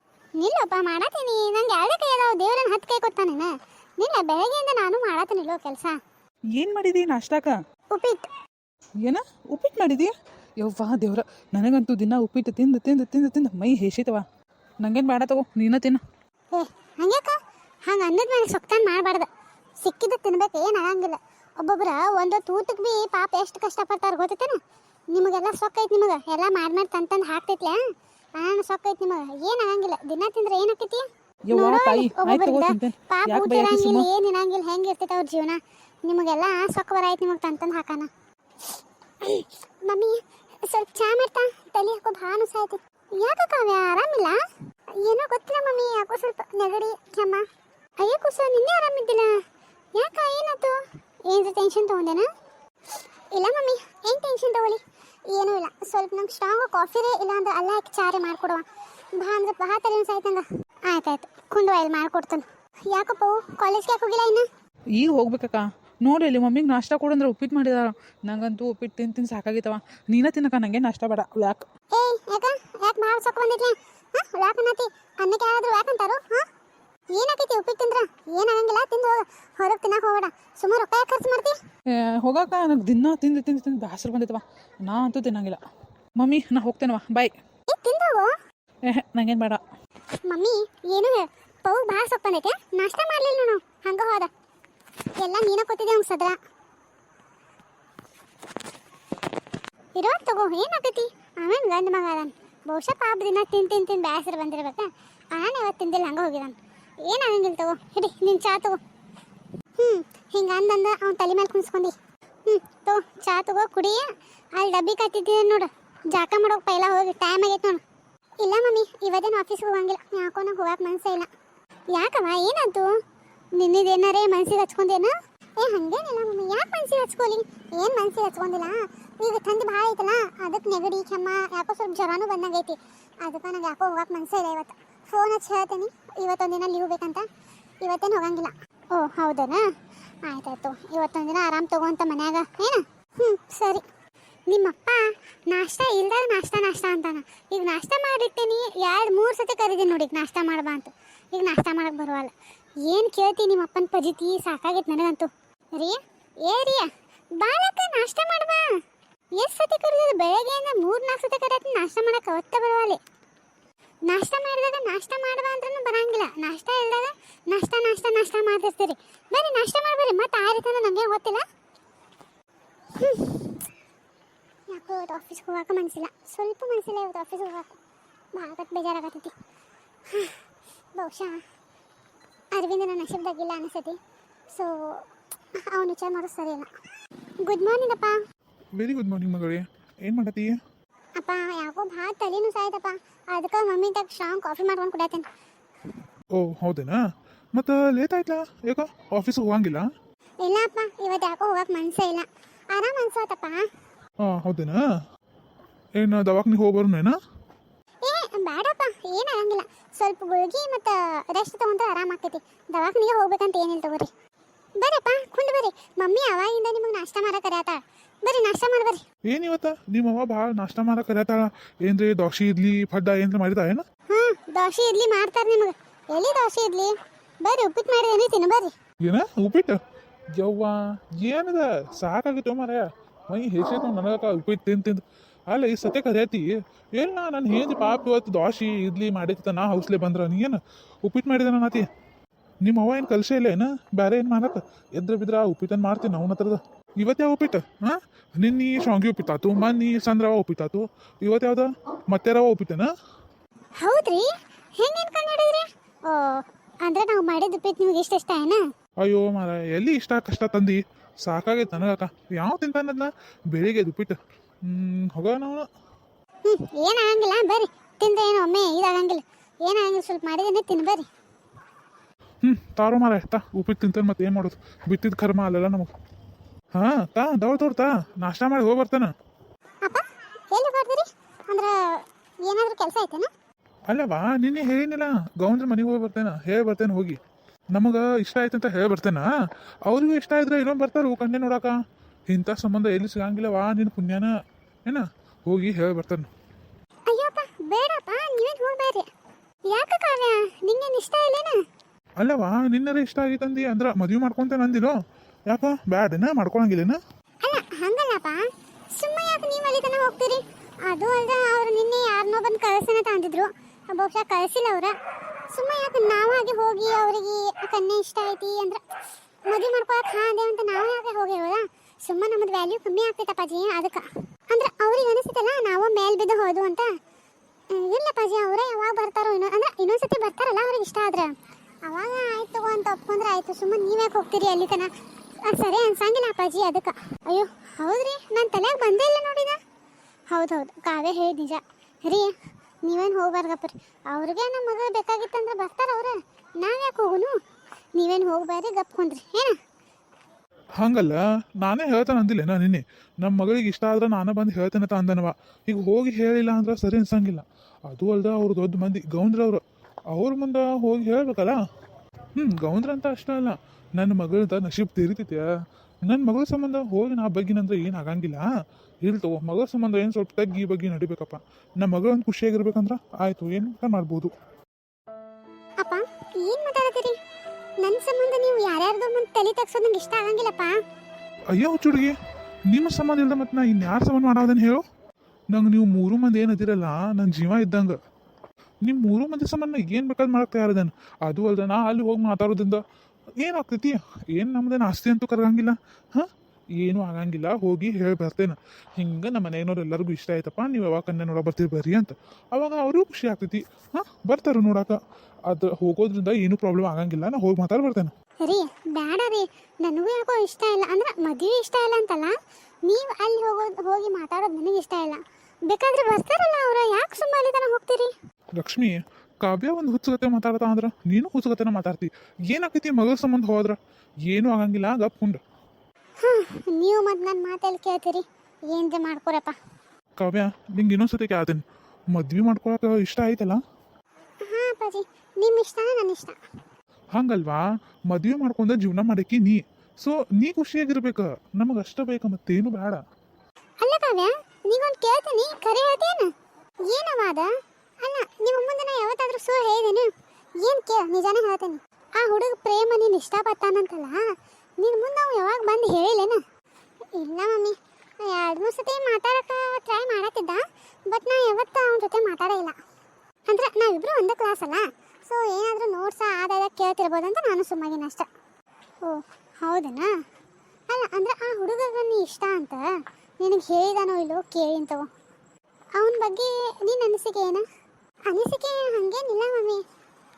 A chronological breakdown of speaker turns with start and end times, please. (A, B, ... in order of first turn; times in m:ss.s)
0:00.4-0:06.0 A
0:06.6-0:07.5 B
0:07.9-0:08.2 A
0:09.0-0:14.2 B
0:14.8-0:16.0 B
0:16.5-0:19.3 A
0:19.8-0:24.6 A
0:25.1-0:27.8 A
0:28.4-0:38.1 A
0:31.5-0:34.1 B
0:39.2-0:44.4 A
0:45.0-0:47.4 A
0:48.0-0:49.3 A
0:50.0-0:52.3 A
0:53.3-0:54.8 A
0:55.3-0:58.6 A
0:59.2-1:04.4 A
1:05.0-1:11.6 B
1:11.9-1:16.4 A
1:17.1-1:21.6 A
1:21.9-1:25.6 B
1:26.2-1:27.3 B
1:27.7-1:28.3 A
1:28.9-1:29.6 B
1:30.3-1:34.3 A
1:35.1-1:36.4 A
1:40.0-1:48.8 A
1:49.8-1:51.9 A
1:52.5-1:57.8 A
1:58.4-2:01.3 A
2:01.9-2:02.9 A
2:03.6-2:17.2 A
2:17.8-2:19.6 A
2:20.2-2:23.8 A
2:24.5-2:38.8 A
2:39.4-2:43.0 A
2:44.1-2:51.4 A
2:52.9-2:53.6 A
2:54.7-2:57.7 A
2:58.4-2:59.3 A
3:00.1-3:00.4 A
3:01.0-3:01.4 A
3:02.5-3:04.0 A
3:04.5-3:05.0 A
3:05.6-3:06.7 A
3:07.4-3:08.2 A
3:08.8-3:10.6 C
3:11.2-3:15.2 A
3:16.3-3:17.0 C
3:17.5-3:19.9 C
3:20.4-3:23.6 A
3:24.2-3:24.8 C
3:26.0-3:27.2 C
3:28.0-3:34.1 A
3:34.8-3:39.0 A
3:39.3-3:43.8 C
3:44.1-3:48.7 A
3:49.0-3:49.8 C
3:50.4-4:01.9 C
4:02.6-4:12.9 C
4:13.8-4:18.6 A
4:19.0-4:25.7 C
4:26.4-4:31.1 A
4:32.4-4:35.9 C
4:36.7-4:39.1 C
4:39.8-4:43.3 A
4:43.9-4:47.2 C
4:47.7-4:49.3 C
4:49.8-4:51.7 C
4:52.3-4:54.3 C
4:54.9-4:56.3 C
4:57.1-4:59.1 A
4:59.7-5:01.6 A
5:02.2-5:05.0 C
5:05.5-5:07.0 C
5:07.4-5:08.4 A
5:09.0-5:14.9 A
5:15.5-5:18.8 A
5:19.5-5:26.9 A
5:27.7-5:31.3 A
5:31.8-5:34.9 A
5:35.4-5:39.6 A
5:40.3-5:42.3 A
5:42.8-5:47.3 A
5:48.0-5:49.5 A
5:50.8-6:01.6 C
6:02.4-6:05.5 C
6:06.0-6:08.4 C
6:09.0-6:14.3 C
6:15.8-6:17.2 A
6:17.8-6:20.7 A
6:21.5-6:22.1 C
6:22.7-6:24.8 C
6:25.5-6:28.0 C
6:28.8-6:32.8 C
6:33.4-6:45.0 C
6:45.5-6:48.1 C
6:48.4-6:52.3 A
6:52.9-6:58.1 A
6:58.6-7:05.4 C
7:06.2-7:09.6 A
7:10.2-7:13.6 C
7:14.4-7:16.4 A
7:17.1-7:23.0 C
7:23.8-7:26.3 A
7:26.9-7:27.5 A
7:28.0-7:30.1 A
7:30.6-7:34.2 A
7:34.8-7:36.4 A
7:37.1-7:42.8 A
7:43.5-7:48.3 A
7:49.0-7:50.1 A
7:50.9-7:52.8 A
7:53.4-7:55.0 A
7:56.0-7:57.6 A
7:58.3-7:59.8 A